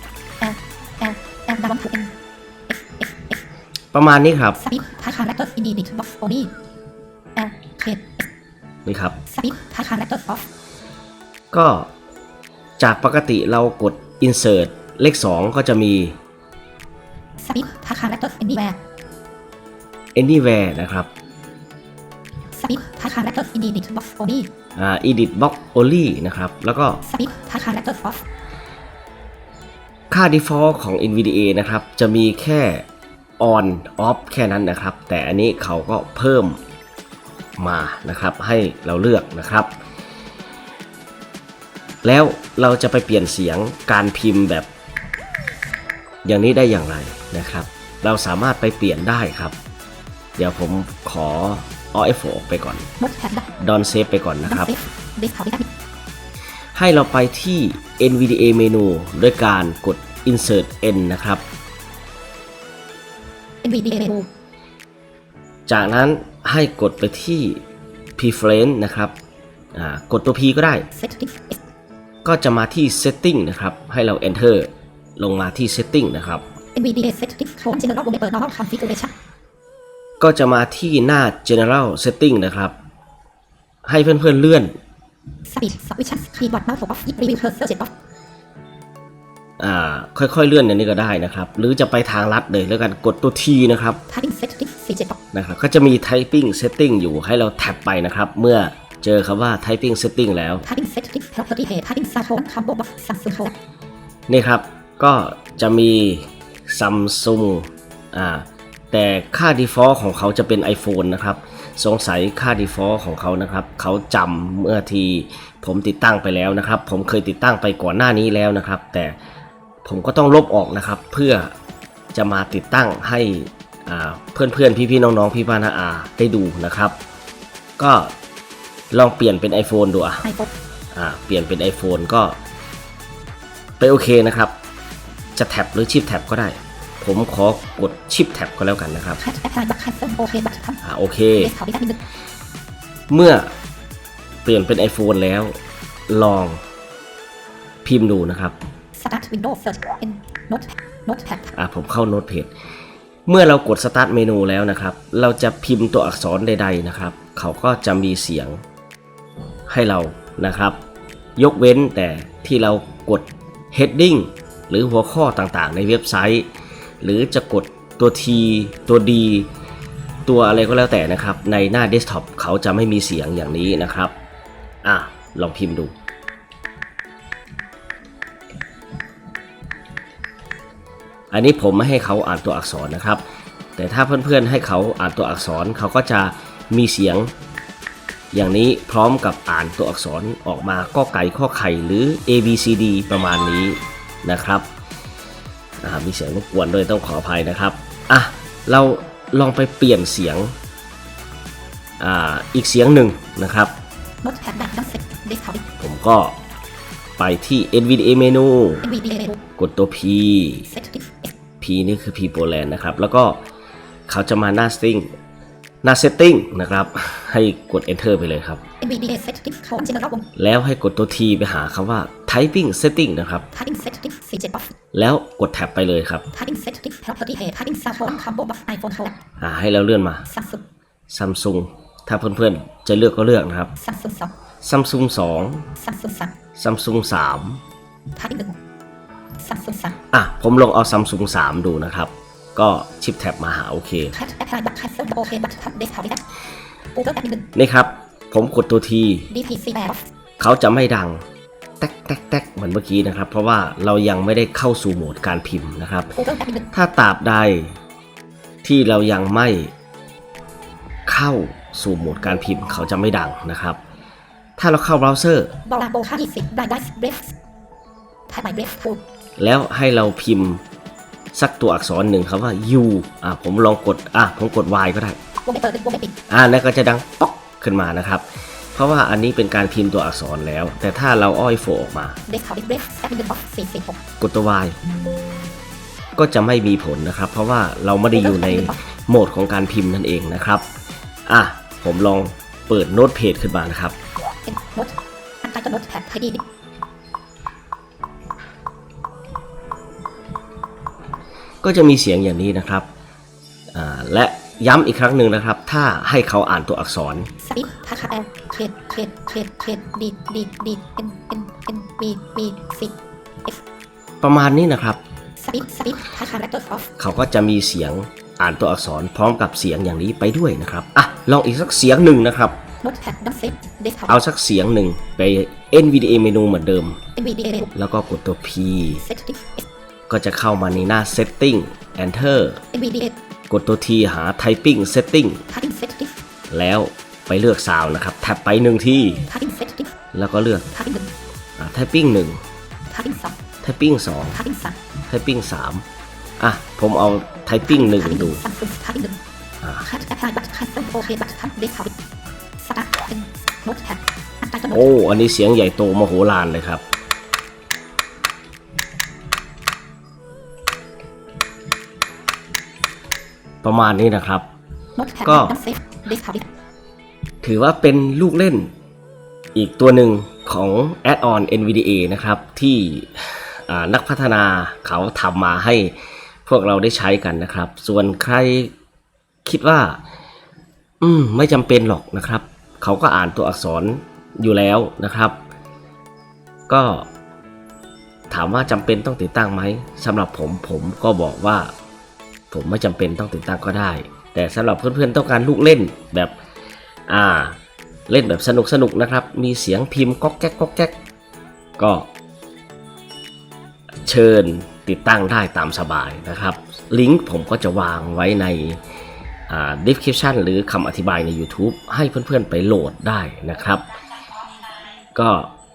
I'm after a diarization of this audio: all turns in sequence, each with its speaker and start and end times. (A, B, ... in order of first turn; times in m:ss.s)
0:00.4-0:02.1 A
0:02.7-0:03.4 A
0:03.9-0:04.6 B
0:04.6-0:06.5 A
0:07.4-0:08.2 A
0:08.8-0:09.2 B
0:09.3-0:10.4 A
0:11.5-0:11.9 B
0:12.8-0:16.2 B
0:17.4-0:18.8 A
0:20.1-0:21.1 B
0:22.5-0:24.5 A
0:24.8-0:27.0 B
0:27.0-0:28.2 A
0:30.1-0:32.8 B
0:33.4-0:36.6 B
0:37.6-0:39.7 B
0:42.0-0:44.7 B
0:46.2-0:49.6 B
0:50.4-0:52.9 B
0:53.0-0:53.5 A
0:53.6-0:54.7 B
0:54.4-0:55.7 A
0:56.7-1:01.4 B
1:03.6-1:04.3 A
1:05.7-1:07.6 B
1:08.2-1:09.1 B
1:09.7-1:10.9 B
1:10.9-1:11.6 A
1:12.2-1:16.4 B
1:16.7-1:19.1 A
1:20.2-1:22.7 B
1:23.8-1:24.7 B
1:25.4-1:27.9 A
1:29.6-1:34.0 B
1:34.1-1:35.2 A
1:35.3-1:40.6 B
1:40.6-1:43.5 A
1:44.3-1:59.1 B
1:59.8-2:01.5 B
2:02.1-2:07.0 B
2:07.8-2:08.1 B
2:08.9-2:10.3 B
2:10.2-2:10.5 A
2:10.9-2:12.4 B
2:13.8-2:14.5 B
2:15.4-2:19.2 B
2:19.2-2:20.8 A
2:20.8-2:21.5 B
2:21.4-2:22.0 A
2:23.1-2:23.5 B
2:24.4-2:25.6 B
2:26.1-2:26.6 B
2:27.8-2:28.6 B
2:28.9-2:31.5 A
2:31.5-2:32.5 B
2:33.3-2:38.6 B
2:39.7-2:40.8 B
2:41.4-2:46.5 B
2:47.0-2:49.5 B
2:50.2-2:54.1 B
2:54.8-2:55.9 B
3:01.3-3:03.2 B
3:03.8-3:07.3 B
3:08.3-3:14.7 B
3:15.8-3:20.5 B
3:22.0-3:23.7 B
3:24.2-3:25.7 A
3:25.8-3:26.4 B
3:27.2-3:28.9 B
3:28.8-3:29.4 A
3:29.6-3:30.7 B
3:30.7-3:31.3 A
3:31.6-3:33.4 B
3:34.1-3:35.1 B
3:35.8-3:38.6 B
3:38.8-3:40.3 A
3:40.4-3:43.5 B
3:43.5-3:44.7 A
3:44.9-3:46.3 B
3:46.3-3:49.2 A
3:49.4-3:50.3 B
3:50.3-3:50.6 A
3:51.1-3:53.7 B
3:53.8-3:54.3 A
3:54.6-3:55.7 B
3:55.8-3:56.3 A
3:56.6-3:57.6 B
3:58.1-3:58.6 A
3:59.4-4:00.0 A
4:00.1-4:04.2 B
4:04.1-4:06.2 A
4:06.9-4:07.5 A
4:07.5-4:09.3 B
4:09.3-4:10.0 A
4:10.4-4:11.2 B
4:11.8-4:16.2 B
4:16.2-4:16.7 A
4:16.7-4:17.8 B
4:18.6-4:19.7 B
4:21.1-4:23.8 B
4:24.6-4:25.6 B
4:25.6-4:27.3 A
4:28.3-4:29.0 A
4:29.4-4:30.6 B
4:31.3-4:35.2 B
4:35.4-4:36.2 A
4:36.3-4:42.2 B
4:42.3-4:44.0 A
4:44.2-4:44.8 B
4:46.2-4:50.6 B
4:48.1-4:48.8 A
4:51.3-4:54.0 B
4:54.4-4:56.4 A
5:01.6-5:02.9 B
5:03.7-5:07.3 B
5:07.4-5:13.6 A
5:14.2-5:15.0 B
5:15.4-5:16.9 A
5:17.0-5:22.6 B
5:22.8-5:24.2 A
5:24.1-5:27.0 B
5:27.2-5:27.7 A
5:27.7-5:29.0 B
5:29.0-5:29.6 A
5:30.1-5:32.6 B
5:32.7-5:33.2 A
5:33.5-5:35.4 B
5:35.5-5:36.2 A
5:36.5-5:39.2 B
5:39.3-5:39.9 A
5:40.1-5:40.7 B
5:40.7-5:41.1 A
5:41.6-5:42.4 B
5:42.9-5:43.4 A
5:43.6-5:44.4 B
5:44.3-5:44.8 A
5:45.0-5:45.8 B
5:46.4-5:48.4 B
5:47.7-5:49.2 A
5:49.8-5:51.9 A
5:52.6-5:54.9 A
5:54.7-5:56.8 B
6:03.6-6:04.4 B
6:05.0-6:06.5 A
6:05.2-6:05.6 B
6:07.4-6:08.7 B
6:09.5-6:18.7 B
6:19.4-6:20.0 B
6:21.0-6:25.4 B
6:26.7-6:27.1 B
6:28.3-6:31.7 B
6:32.5-6:36.3 B
6:37.1-6:37.6 B
6:38.1-6:41.0 B
6:41.8-6:42.1 B
6:44.0-6:48.8 B
6:49.5-6:53.8 B
6:55.1-6:55.5 B